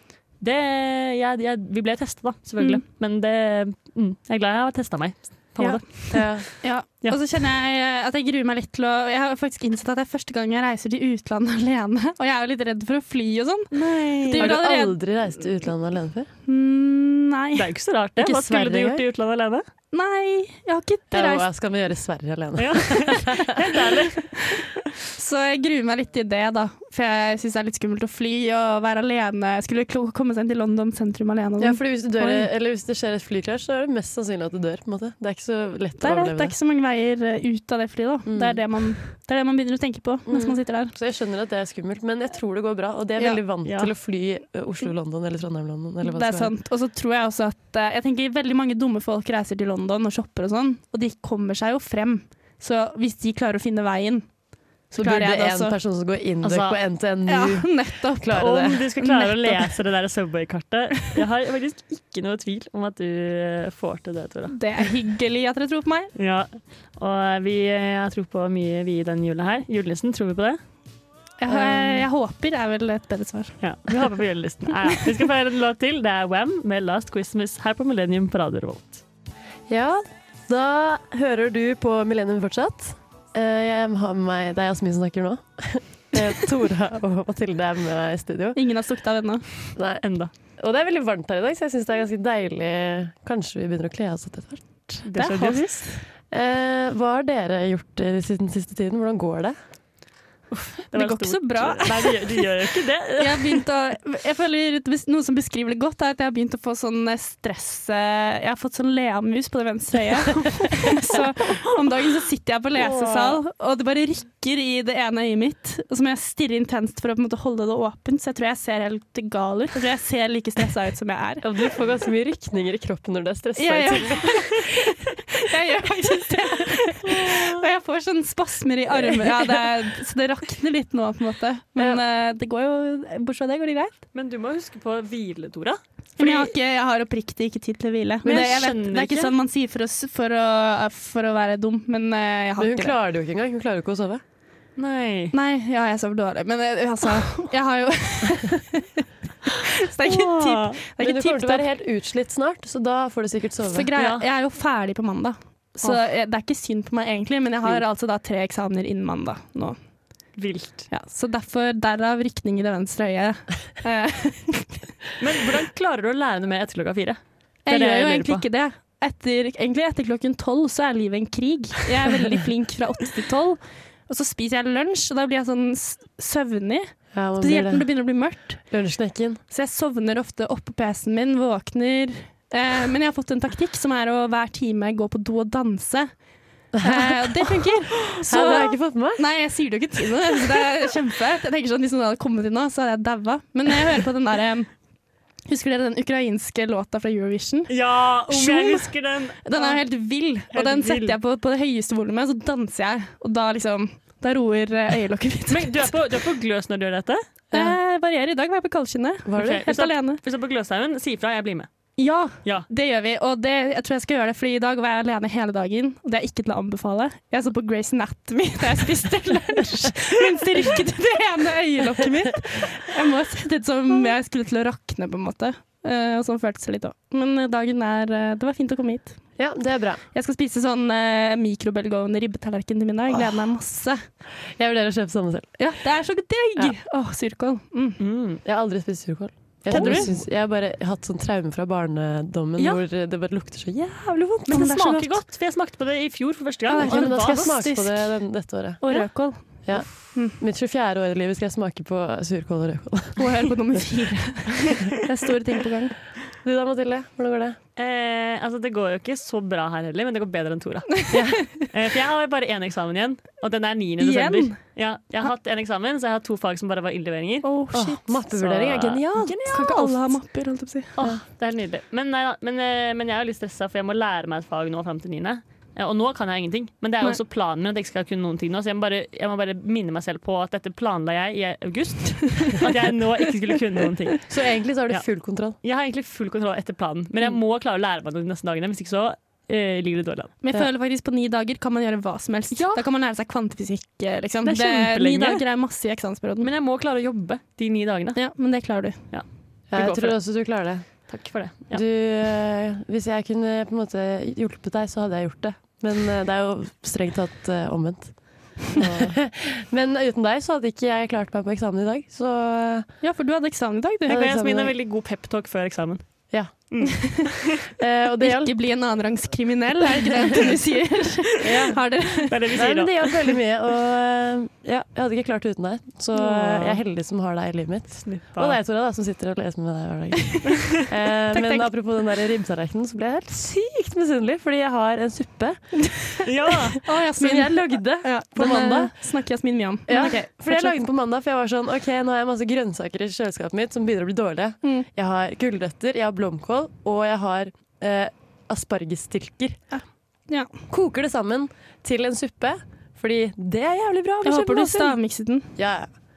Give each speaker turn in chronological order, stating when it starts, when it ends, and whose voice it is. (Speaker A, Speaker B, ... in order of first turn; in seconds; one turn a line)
Speaker A: 0.4-7.2
Speaker B: 5.6-6.5
Speaker C: 6.6-13.7
Speaker A: 13.7-14.5
Speaker C: 14.2-15.0
Speaker B: 14.3-16.3
Speaker C: 16.4-17.7
Speaker A: 17.5-19.6
Speaker B: 18.2-19.0
Speaker C: 19.9-21.5
Speaker B: 21.1-23.7
Speaker A: 22.6-24.3
Speaker C: 24.4-32.5
Speaker B: 31.6-36.5
Speaker C: 36.0-40.9
Speaker B: 38.2-38.6
Speaker B: 40.3-46.5
Speaker A: 43.6-43.9
Speaker C: 46.0-54.3
Speaker C: 54.9-55.7
Speaker B: 54.9-58.9
Speaker A: 56.4-56.8
Speaker C: 57.3-59.7
Speaker A: 58.4-64.5
Speaker C: 64.5-66.1
Speaker A: 66.1-70.6
Speaker C: 71.4-74.0
Speaker B: 71.5-72.0
Speaker A: 73.6-79.0
Speaker B: 79.7-88.6
Speaker C: 88.5-89.5
Speaker B: 89.8-90.0
Speaker A: 90.0-90.3
Speaker B: 90.6-95.0
Speaker A: 95.0-95.8
Speaker C: 95.1-96.0
Speaker B: 96.3-99.5
Speaker A: 100.5-103.6
Speaker C: 100.9-102.5
Speaker C: 103.2-121.5
Speaker A: 112.8-113.4
Speaker B: 121.4-124.7
Speaker C: 123.5-134.0
Speaker A: 127.1-127.7
Speaker A: 134.1-136.5
Speaker C: 136.2-142.9
Speaker A: 138.2-139.3
Speaker B: 138.3-138.6
Speaker B: 142.6-144.2
Speaker A: 144.8-145.3
Speaker C: 145.3-151.7
Speaker A: 150.0-150.8
Speaker B: 151.0-153.9
Speaker C: 153.6-159.8
Speaker A: 153.9-154.2
Speaker A: 160.3-160.9
Speaker C: 160.9-164.8
Speaker A: 165.2-168.4
Speaker C: 167.7-178.6
Speaker B: 177.1-177.9
Speaker B: 178.6-179.4
Speaker C: 179.5-186.1
Speaker B: 186.7-189.2
Speaker C: 186.8-194.7
Speaker C: 195.4-197.7
Speaker A: 197.7-199.8
Speaker C: 198.3-198.9
Speaker C: 199.4-205.9
Speaker A: 200.5-201.2
Speaker A: 205.5-207.2
Speaker C: 207.5-210.2
Speaker B: 209.2-209.6
Speaker A: 209.3-211.7
Speaker C: 212.0-229.2
Speaker B: 229.4-230.0
Speaker C: 230.1-234.0
Speaker B: 234.5-235.6
Speaker C: 235.6-238.0
Speaker A: 238.0-238.4
Speaker B: 238.4-244.6
Speaker C: 239.7-240.1
Speaker A: 239.7-240.2
Speaker A: 244.5-247.6
Speaker C: 244.5-245.2
Speaker C: 246.7-248.2
Speaker B: 246.8-248.8
Speaker C: 248.8-250.4
Speaker B: 249.6-253.8
Speaker C: 253.2-255.9
Speaker B: 256.4-257.6
Speaker A: 257.8-267.5
Speaker C: 261.0-261.7
Speaker B: 261.1-261.4
Speaker C: 264.0-264.6
Speaker C: 267.4-268.2
Speaker B: 267.7-269.3
Speaker A: 268.3-270.2
Speaker C: 269.4-270.9
Speaker A: 270.9-284.3
Speaker B: 284.3-285.6
Speaker A: 285.6-290.3
Speaker C: 290.4-296.5
Speaker A: 292.5-292.8
Speaker A: 294.4-295.4
Speaker A: 296.4-298.2
Speaker C: 298.1-299.0
Speaker A: 299.1-300.2
Speaker B: 299.7-301.1
Speaker A: 301.1-301.8
Speaker B: 301.7-312.9
Speaker C: 313.0-314.2
Speaker B: 314.1-314.7
Speaker A: 314.1-317.5
Speaker B: 316.3-317.1
Speaker B: 317.7-318.5
Speaker C: 318.2-322.4
Speaker B: 321.4-321.8
Speaker A: 322.2-323.4
Speaker B: 322.5-336.1
Speaker A: 326.1-326.8
Speaker A: 328.0-328.6
Speaker C: 331.3-331.7
Speaker A: 336.2-336.8
Speaker C: 336.8-340.7
Speaker B: 336.9-338.9
Speaker B: 339.9-349.6
Speaker C: 349.7-350.5
Speaker B: 350.7-354.9
Speaker C: 354.2-355.5
Speaker B: 355.6-355.9